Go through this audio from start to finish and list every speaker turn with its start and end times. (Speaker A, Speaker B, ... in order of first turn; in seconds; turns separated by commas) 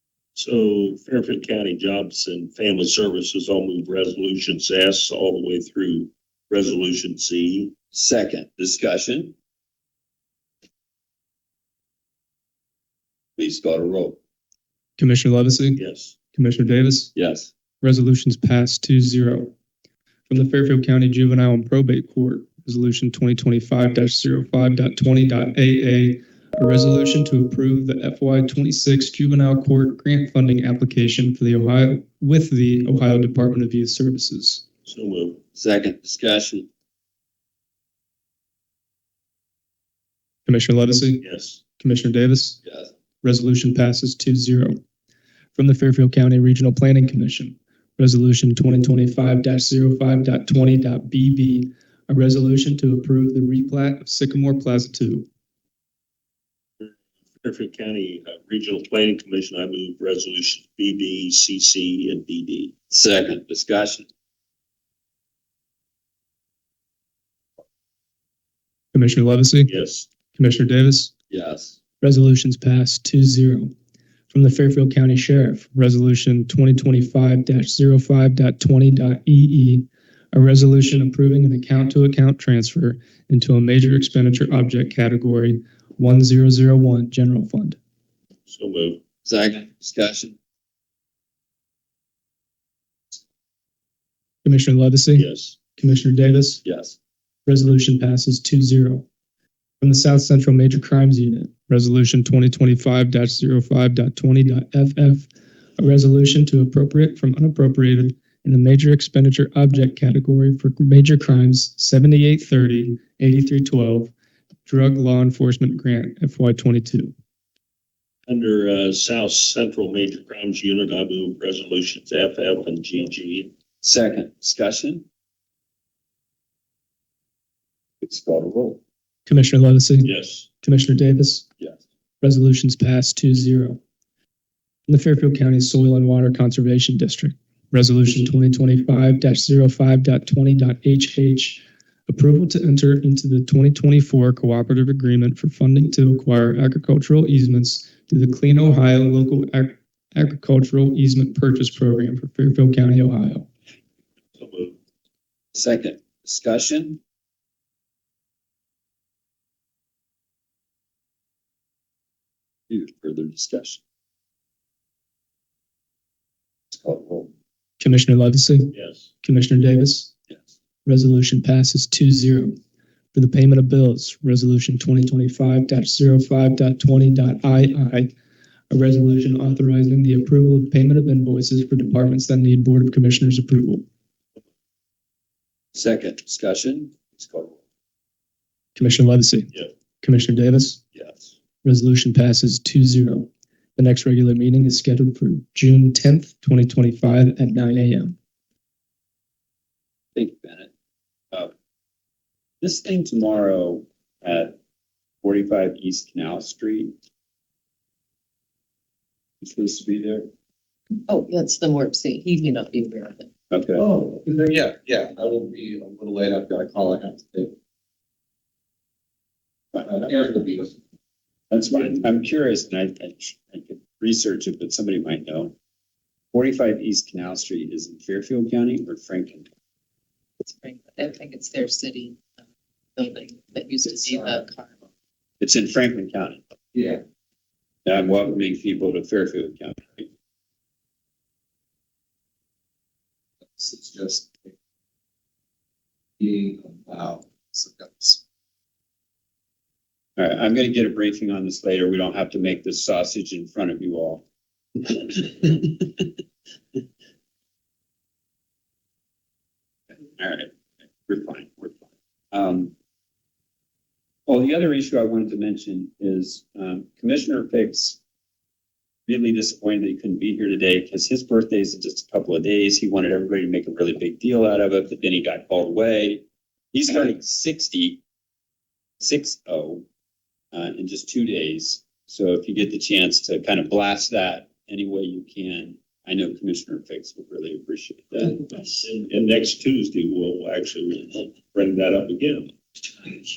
Speaker A: 0.3-7.7, Speaker B: 7.9-9.3, Speaker B: 13.4-14.2, Speaker C: 15.0-15.8, Speaker A: 15.8-16.1, Speaker C: 16.3-17.1, Speaker B: 17.1-17.5, Speaker C: 17.8-19.5, Speaker C: 20.3-34.6, Speaker A: 34.9-35.4, Speaker B: 35.5-36.7, Speaker C: 40.5-41.3, Speaker A: 41.2-41.6, Speaker C: 41.8-42.6, Speaker B: 42.6-42.9, Speaker C: 43.2-44.8, Speaker C: 45.5-55.3, Speaker A: 56.8-62.7, Speaker B: 62.9-64.1, Speaker C: 68.9-69.7, Speaker A: 69.7-70.1, Speaker C: 70.3-71.1, Speaker B: 71.3-71.8, Speaker C: 72.0-73.7, Speaker C: 74.3-87.8, Speaker A: 88.5-89.0, Speaker B: 89.2-90.4, Speaker C: 94.4-96.6, Speaker A: 95.1-95.5, Speaker B: 96.6-97.0, Speaker C: 97.5-99.0, Speaker C: 99.8-114.1, Speaker C: 114.7-117.1, Speaker A: 118.3-123.5, Speaker B: 123.8-125.0, Speaker B: 128.0-128.8, Speaker C: 129.3-131.5, Speaker A: 130.0-130.5, Speaker C: 132.2-133.8, Speaker C: 134.9-153.5, Speaker A: 154.4-154.8, Speaker B: 155.5-157.0, Speaker B: 162.7-163.8, Speaker B: 166.7-167.3, Speaker C: 167.8-170.1, Speaker A: 168.7-169.1, Speaker C: 170.9-172.6, Speaker C: 173.1-178.1, Speaker C: 178.7-183.8, Speaker B: 185.7-187.6, Speaker C: 188.8-190.8, Speaker B: 190.9-191.3, Speaker C: 191.6-198.2, Speaker B: 200.2-200.7, Speaker B: 202.6-204.5, Speaker B: 205.2-206.9, Speaker B: 209.4-210.3, Speaker D: 211.1-213.3, Speaker B: 213.5-213.8, Speaker E: 213.8-217.5, Speaker B: 219.7-220.0, Speaker E: 219.9-220.7, Speaker B: 221.5-225.5, Speaker B: 226.3-229.5, Speaker D: 230.4-232.2, Speaker D: 233.0-234.7, Speaker B: 235.4-236.4, Speaker E: 236.7-237.0, Speaker B: 237.8-240.1, Speaker E: 243.6-244.5, Speaker E: 246.2-248.2, Speaker B: 250.2-254.2, Speaker B: 254.8-256.1, Speaker B: 260.2-260.5, Speaker B: 261.1-262.7, Speaker B: 264.3-268.0, Speaker B: 269.1-278.0, Speaker B: 279.0-279.9, Speaker B: 280.5-288.6, Speaker A: 288.6-292.5